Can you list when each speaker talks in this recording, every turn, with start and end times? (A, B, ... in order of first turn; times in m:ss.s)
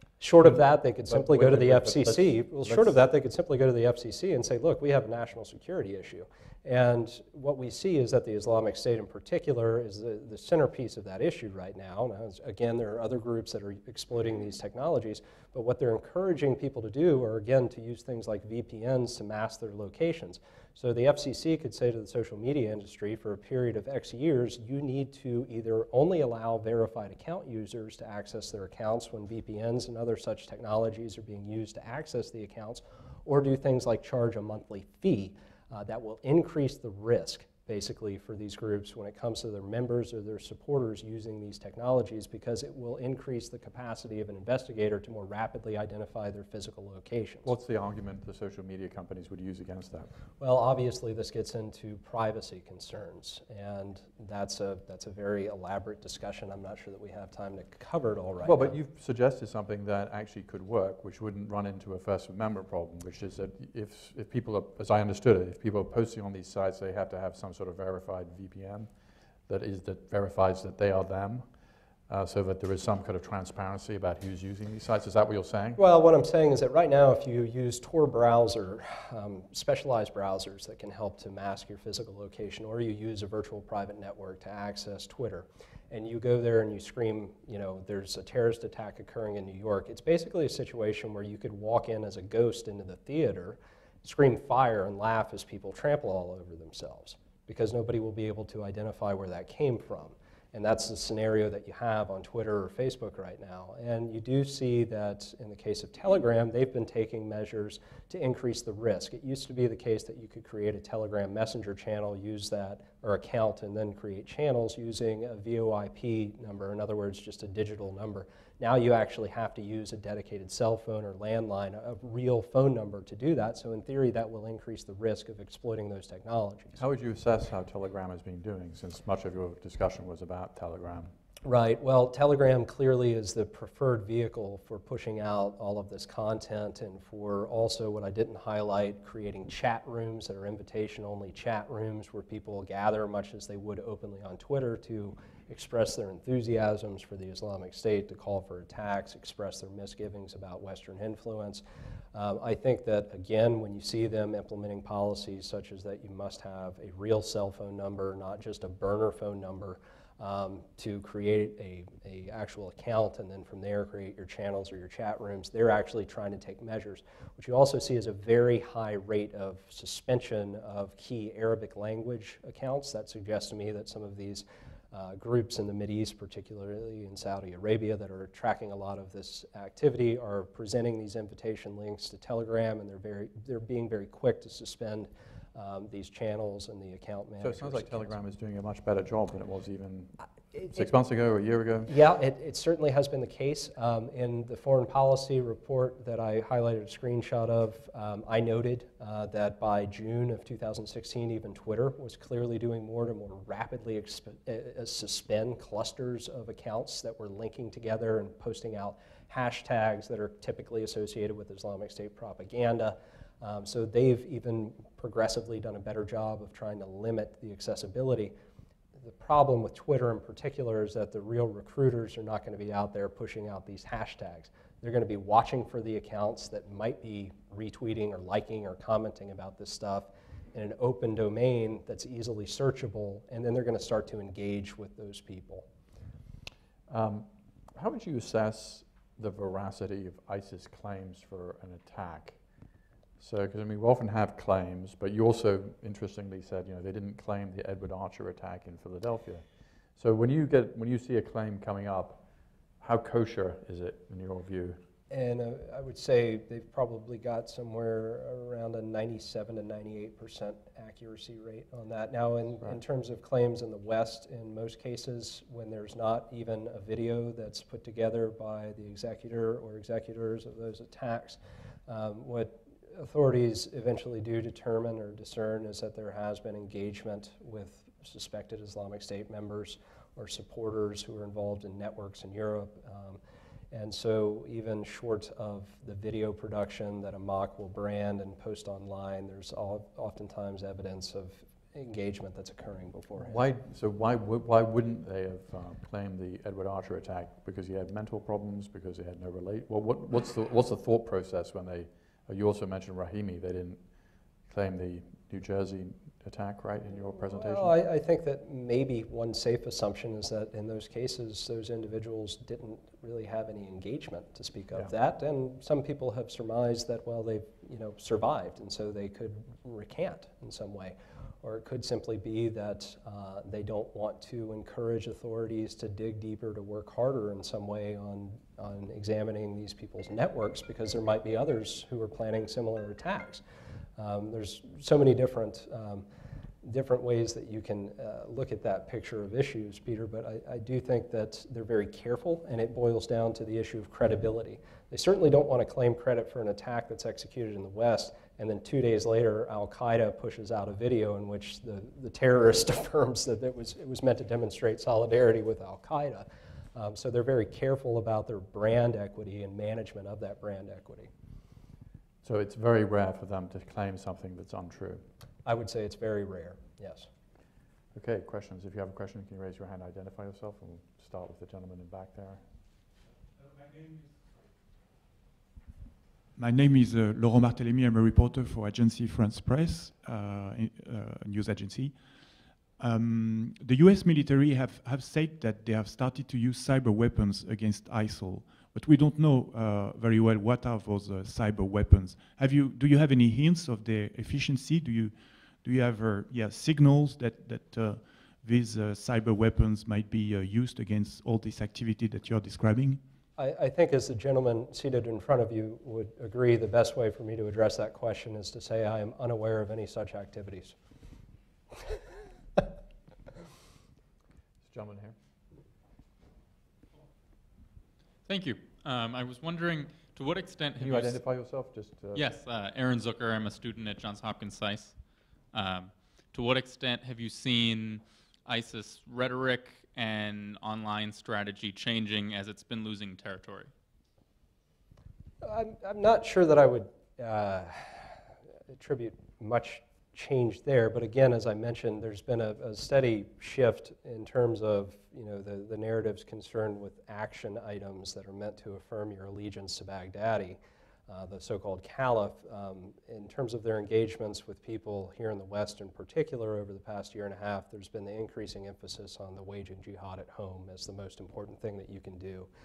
0:00.2-0:47.5 A
0:01.0-0:03.0 B
0:47.4-0:50.1 B
0:50.4-0:58.8 A
0:58.4-1:08.9 B
1:09.5-1:11.5 B
1:12.1-1:15.8 B
1:15.8-2:06.8 A
2:06.8-2:11.1 B
2:11.4-2:31.6 A
2:32.1-3:08.2 A
3:07.4-3:10.2 B
3:10.5-3:10.8 A
3:10.7-3:11.9 B
3:11.9-3:38.3 A
3:39.0-3:55.6 A
3:56.9-4:02.4 B
4:03.2-4:09.4 B
4:10.0-4:12.2 B
4:12.8-4:14.8 B
4:15.1-4:43.2 A
4:43.7-4:53.4 A
4:53.2-5:03.8 B
5:04.5-5:07.7 B
5:07.2-5:33.4 A
5:34.0-5:36.0 A
5:36.6-6:01.1 A
6:02.2-6:05.0 B
6:05.4-6:07.1 A
6:07.9-6:12.4 B
6:16.3-6:43.0 C
6:43.4-6:50.8 A
6:54.6-6:55.1 B
6:58.2-7:01.2 D
7:00.8-7:02.3 B
7:02.1-7:13.7 D
7:15.4-7:18.1 A
7:18.7-7:42.5 A